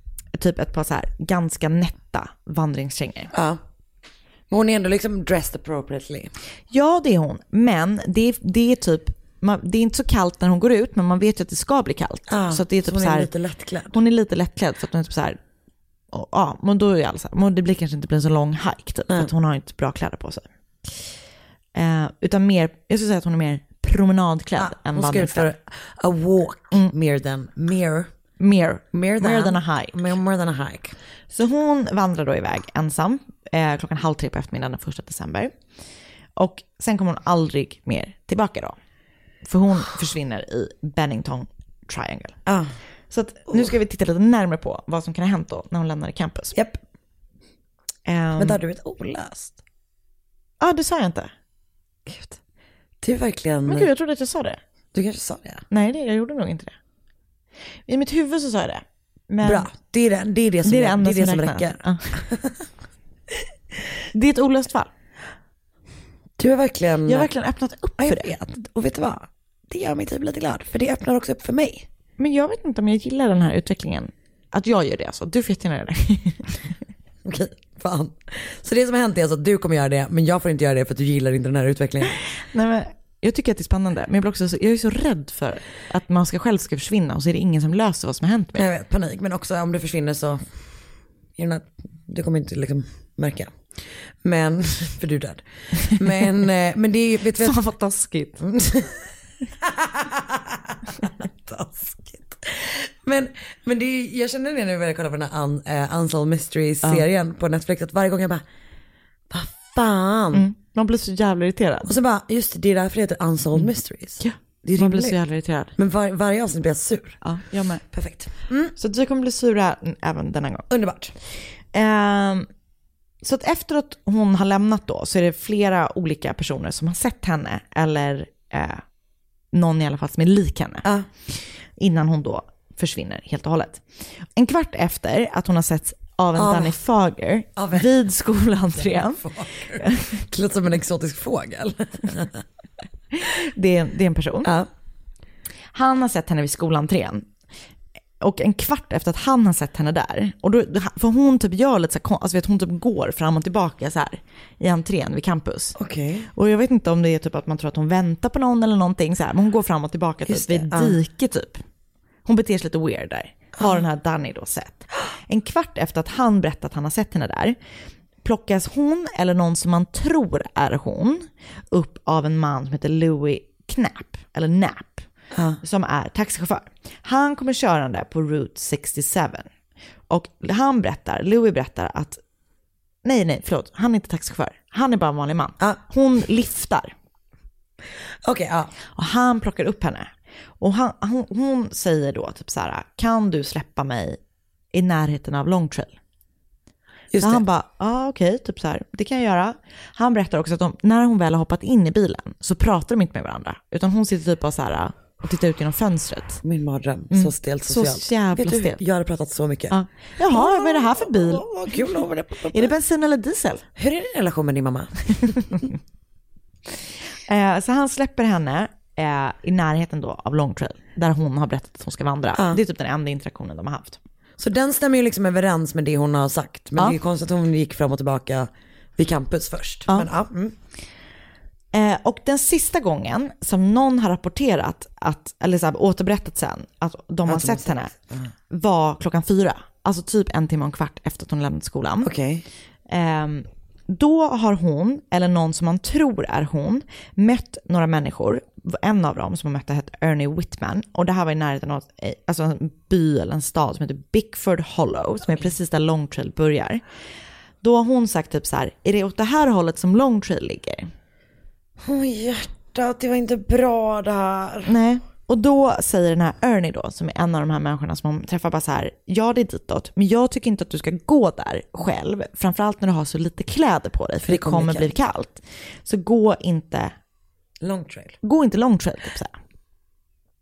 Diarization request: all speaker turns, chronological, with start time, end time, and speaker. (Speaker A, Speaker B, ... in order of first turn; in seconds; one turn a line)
Speaker A: 0.3-3.3
Speaker B: 3.3-3.6
Speaker B: 4.5-6.3
Speaker A: 6.7-13.3
Speaker B: 12.3-14.0
Speaker A: 13.9-15.4
Speaker A: 16.1-20.4
Speaker A: 21.7-25.5
Speaker B: 24.6-28.1
Speaker A: 28.4-30.1
Speaker B: 28.9-30.9
Speaker A: 31.3-35.5
Speaker A: 36.4-38.8
Speaker A: 39.4-42.4
Speaker B: 42.5-42.7
Speaker A: 43.1-46.5
Speaker B: 46.5-46.8
Speaker A: 48.0-48.6
Speaker B: 48.4-49.6
Speaker A: 50.6-51.3
Speaker B: 52.0-52.4
Speaker B: 53.0-53.9
Speaker A: 53.6-54.6
Speaker B: 54.9-55.6
Speaker A: 55.7-56.7
Speaker A: 57.9-59.7
Speaker B: 59.4-62.6
Speaker A: 60.6-62.2
Speaker A: 64.1-64.9
Speaker B: 66.4-67.3
Speaker A: 67.0-68.3
Speaker B: 68.0-71.9
Speaker A: 72.2-76.6
Speaker B: 77.2-82.2
Speaker A: 82.3-88.6
Speaker B: 88.5-90.5
Speaker B: 91.4-97.6
Speaker A: 97.4-98.3
Speaker B: 98.3-108.4
Speaker B: 109.3-110.5
Speaker A: 110.3-111.9
Speaker B: 111.8-115.2
Speaker A: 114.2-115.7
Speaker B: 115.8-117.2
Speaker A: 117.2-117.8
Speaker B: 117.9-118.7
Speaker A: 118.8-120.7
Speaker B: 120.7-121.1
Speaker A: 121.7-122.5
Speaker A: 123.2-128.8
Speaker A: 129.5-133.8
Speaker A: 134.3-139.2
Speaker B: 136.3-136.8
Speaker B: 137.6-137.9
Speaker B: 138.8-142.4
Speaker A: 139.7-140.2
Speaker A: 143.1-144.5
Speaker B: 144.4-144.7
Speaker A: 145.7-147.3
Speaker A: 148.2-155.7
Speaker B: 155.7-156.3
Speaker A: 156.3-161.6
Speaker B: 160.3-161.0
Speaker A: 162.2-167.6
Speaker A: 168.2-175.1
Speaker B: 175.3-175.6
Speaker A: 175.6-179.5
Speaker A: 180.1-182.2
Speaker A: 183.0-186.9
Speaker B: 188.2-188.7
Speaker A: 188.9-194.2
Speaker A: 194.7-195.9
Speaker B: 197.1-197.4
Speaker A: 197.2-206.4
Speaker B: 206.4-212.7
Speaker A: 207.1-208.8
Speaker A: 209.7-211.9
Speaker A: 212.5-213.6
Speaker B: 213.8-215.5
Speaker A: 217.2-224.0
Speaker B: 222.3-222.6
Speaker B: 224.4-230.5
Speaker A: 231.7-237.9
Speaker B: 237.2-238.3
Speaker A: 238.5-242.1
Speaker B: 242.0-242.4
Speaker A: 242.9-256.8
Speaker A: 257.6-260.9
Speaker B: 261.8-264.7
Speaker A: 264.6-276.9
Speaker B: 274.2-274.9
Speaker B: 277.6-278.2
Speaker A: 278.2-279.3